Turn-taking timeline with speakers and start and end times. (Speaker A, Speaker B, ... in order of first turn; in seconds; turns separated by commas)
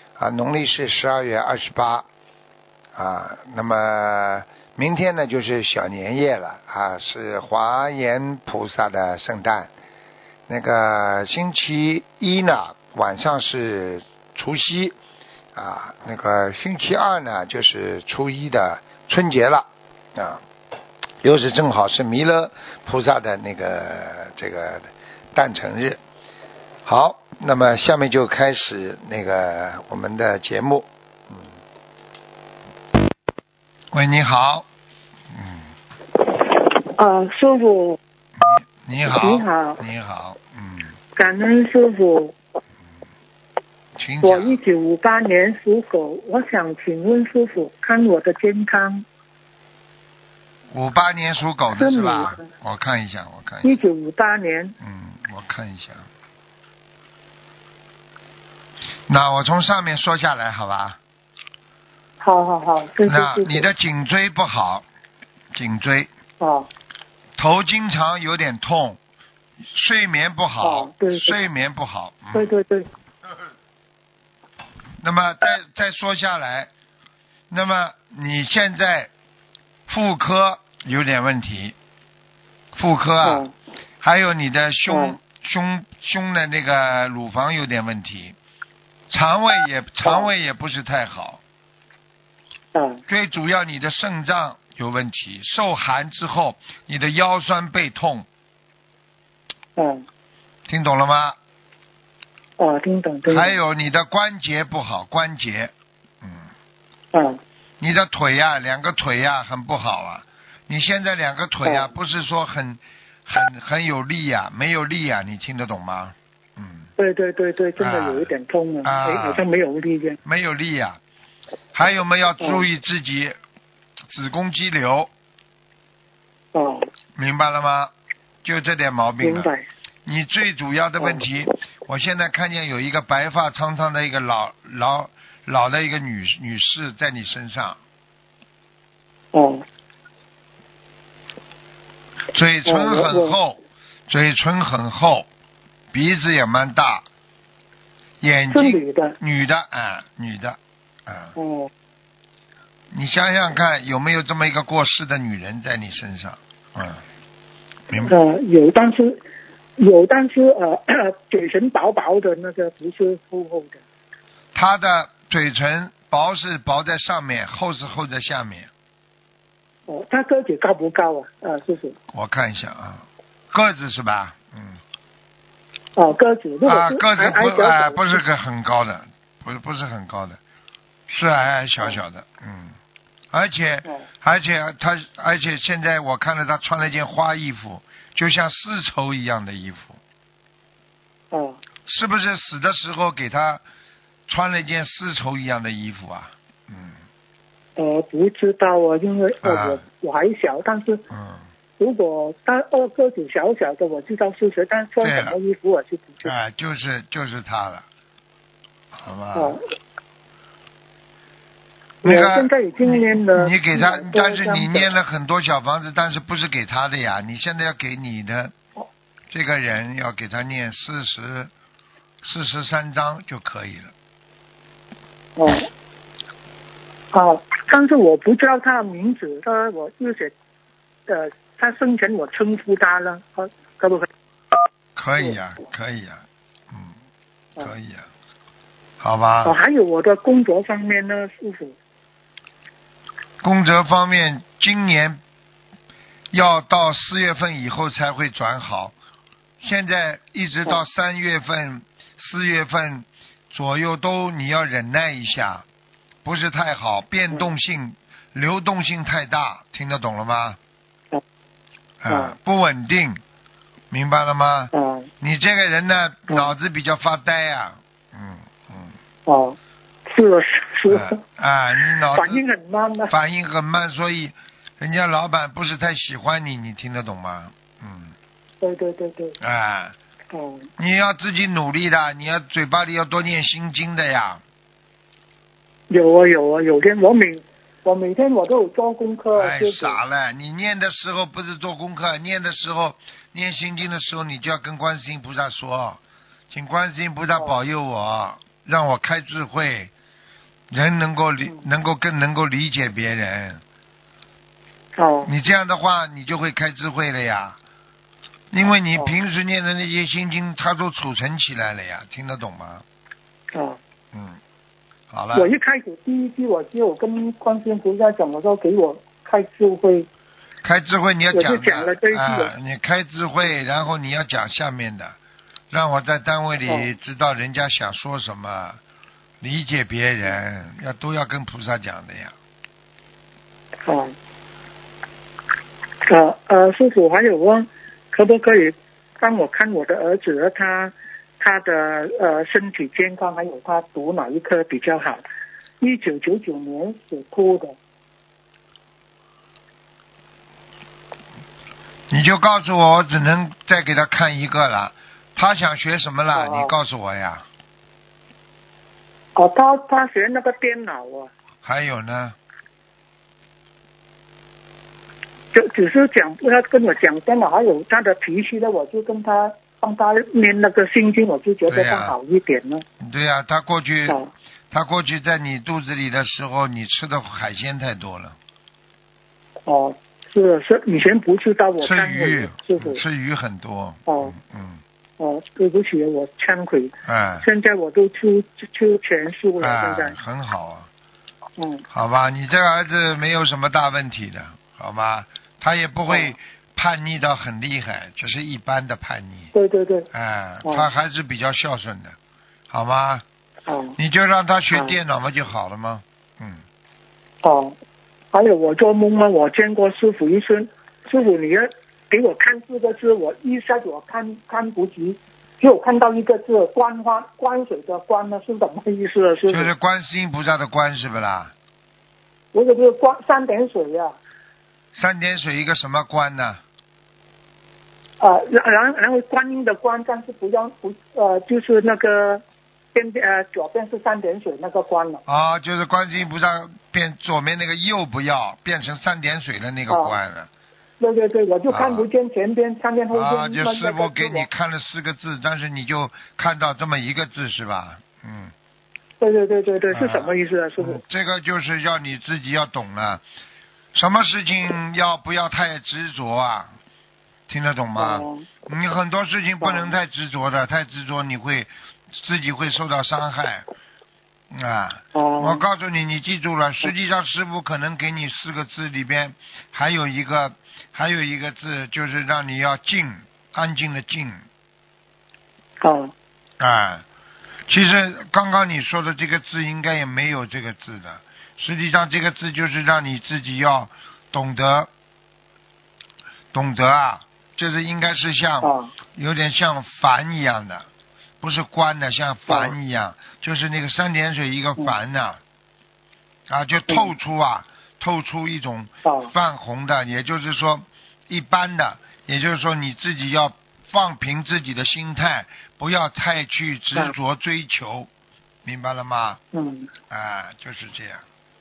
Speaker A: 0.2-2.1, Speaker A: 3.0-9.7, Speaker A: 10.5-14.9, Speaker A: 15.6-20.4, Speaker A: 21.2-26.0, Speaker A: 26.9-31.5, Speaker A: 33.9-34.7, Speaker A: 35.3-35.7, Speaker B: 36.5-38.0, Speaker A: 38.4-41.0, Speaker B: 39.0-39.8, Speaker B: 41.1-42.4, Speaker A: 44.0-44.6, Speaker B: 44.2-49.0, Speaker A: 50.7-53.8, Speaker B: 51.8-52.5, Speaker B: 53.6-54.8, Speaker A: 54.8-56.1, Speaker A: 59.1-61.0, Speaker B: 62.2-63.7, Speaker A: 63.0-64.9, Speaker A: 65.5-66.1, Speaker B: 66.4-66.7, Speaker A: 67.4-69.0, Speaker A: 69.7-72.5, Speaker B: 70.6-71.4, Speaker B: 72.3-72.9, Speaker A: 75.0-76.7, Speaker A: 77.5-79.1, Speaker A: 79.9-81.8, Speaker A: 82.7-83.5, Speaker B: 83.2-83.5, Speaker A: 84.0-88.4, Speaker B: 84.9-85.2, Speaker A: 89.1-91.4, Speaker B: 90.0-90.3, Speaker B: 92.7-93.0, Speaker A: 93.1-98.3, Speaker B: 99.8-100.1, Speaker A: 100.7-101.4, Speaker B: 102.6-103.5, Speaker A: 103.2-106.5, Speaker B: 107.1-107.4, Speaker A: 107.8-116.9, Speaker B: 117.0-120.2, Speaker A: 117.8-118.3, Speaker A: 118.8-119.5, Speaker A: 120.2-121.0, Speaker A: 121.7-123.4, Speaker A: 124.1-125.1, Speaker B: 126.5-126.9, Speaker A: 127.2-127.9, Speaker A: 128.4-129.5, Speaker B: 129.2-129.7, Speaker A: 130.1-137.8, Speaker B: 139.3-139.7, Speaker A: 142.3-145.3, Speaker B: 142.7-143.4, Speaker A: 145.9-147.1, Speaker A: 148.2-151.3, Speaker B: 148.5-149.2, Speaker B: 151.4-151.7, Speaker A: 152.9-157.0, Speaker A: 157.9-158.2, Speaker B: 158.0-159.2, Speaker B: 159.8-163.8, Speaker A: 164.6-168.7, Speaker B: 169.9-172.0, Speaker A: 172.1-174.8, Speaker B: 176.0-178.2, Speaker A: 176.7-180.4, Speaker A: 181.1-182.8, Speaker A: 183.3-190.0, Speaker B: 191.3-191.6, Speaker A: 191.8-193.6, Speaker A: 194.3-197.0, Speaker B: 197.8-201.0, Speaker A: 199.4-199.8, Speaker A: 201.1-201.4, Speaker B: 201.8-206.3, Speaker A: 205.0-205.4, Speaker A: 206.2-207.9, Speaker A: 208.9-209.6, Speaker B: 209.3-209.6, Speaker B: 212.0-214.9, Speaker A: 212.0-218.5, Speaker A: 219.3-221.5, Speaker A: 222.2-223.9, Speaker B: 225.4-225.7, Speaker B: 227.1-230.3, Speaker B: 231.1-234.1, Speaker A: 235.0-236.9, Speaker A: 237.6-238.1, Speaker A: 239.0-239.6, Speaker B: 239.4-241.8, Speaker A: 243.4-245.2, Speaker A: 246.3-248.9, Speaker A: 249.6-255.7, Speaker A: 256.2-260.6, Speaker A: 262.0-263.2, Speaker A: 263.9-268.9, Speaker B: 264.7-265.1, Speaker B: 269.3-269.6, Speaker B: 270.1-271.2, Speaker A: 270.9-272.4, Speaker B: 272.1-273.1, Speaker A: 273.1-278.1, Speaker B: 278.6-279.4, Speaker A: 279.4-280.0, Speaker B: 280.3-280.7, Speaker A: 280.8-284.4, Speaker B: 285.9-290.0, Speaker A: 289.3-296.0, Speaker A: 296.5-299.9, Speaker A: 300.7-303.6, Speaker B: 305.0-305.3, Speaker A: 305.2-307.6, Speaker A: 308.5-312.9, Speaker B: 313.5-313.8, Speaker A: 314.1-314.4, Speaker A: 315.1-315.5, Speaker B: 315.3-320.1, Speaker A: 320.6-325.2, Speaker B: 321.3-322.5, Speaker A: 325.7-328.8, Speaker A: 329.4-332.4, Speaker B: 333.9-334.1, Speaker B: 336.1-345.2, Speaker B: 345.8-347.8, Speaker A: 352.1-357.5, Speaker B: 356.3-356.7, Speaker B: 359.4-361.3, Speaker A: 361.6-362.4, Speaker B: 365.5-372.9, Speaker A: 371.7-372.1, Speaker A: 373.0-374.2, Speaker A: 374.7-378.4, Speaker B: 379.7-383.0, Speaker A: 381.8-384.8, Speaker B: 384.1-384.3, Speaker B: 385.2-390.2, Speaker A: 387.1-387.5, Speaker A: 389.6-390.9, Speaker B: 391.6-391.9, Speaker A: 391.9-399.5, Speaker B: 396.1-396.4, Speaker B: 399.5-400.1, Speaker A: 400.1-402.2, Speaker A: 402.7-403.2, Speaker B: 403.7-404.0, Speaker A: 404.0-406.6, Speaker B: 407.4-407.8, Speaker B: 408.3-419.7, Speaker A: 419.5-421.5, Speaker B: 422.5-424.2, Speaker A: 424.9-426.6, Speaker B: 428.2-432.4, Speaker B: 432.9-435.2, Speaker A: 435.3-440.5, Speaker B: 439.9-440.1, Speaker B: 441.0-444.5, Speaker A: 441.7-442.1, Speaker A: 443.1-448.5, Speaker B: 449.2-451.0, Speaker A: 449.9-453.2, Speaker A: 453.9-456.7, Speaker A: 457.5-463.7, Speaker B: 458.0-458.5, Speaker B: 459.6-459.9, Speaker A: 464.5-474.4, Speaker B: 465.1-465.6, Speaker B: 475.8-476.1, Speaker A: 476.6-477.1, Speaker A: 477.7-484.9, Speaker A: 486.5-490.9, Speaker B: 488.6-488.9, Speaker A: 491.4-495.4, Speaker B: 492.5-492.8, Speaker A: 496.5-508.1, Speaker B: 499.1-499.3, Speaker A: 508.6-509.4, Speaker B: 509.5-509.9, Speaker A: 510.1-511.2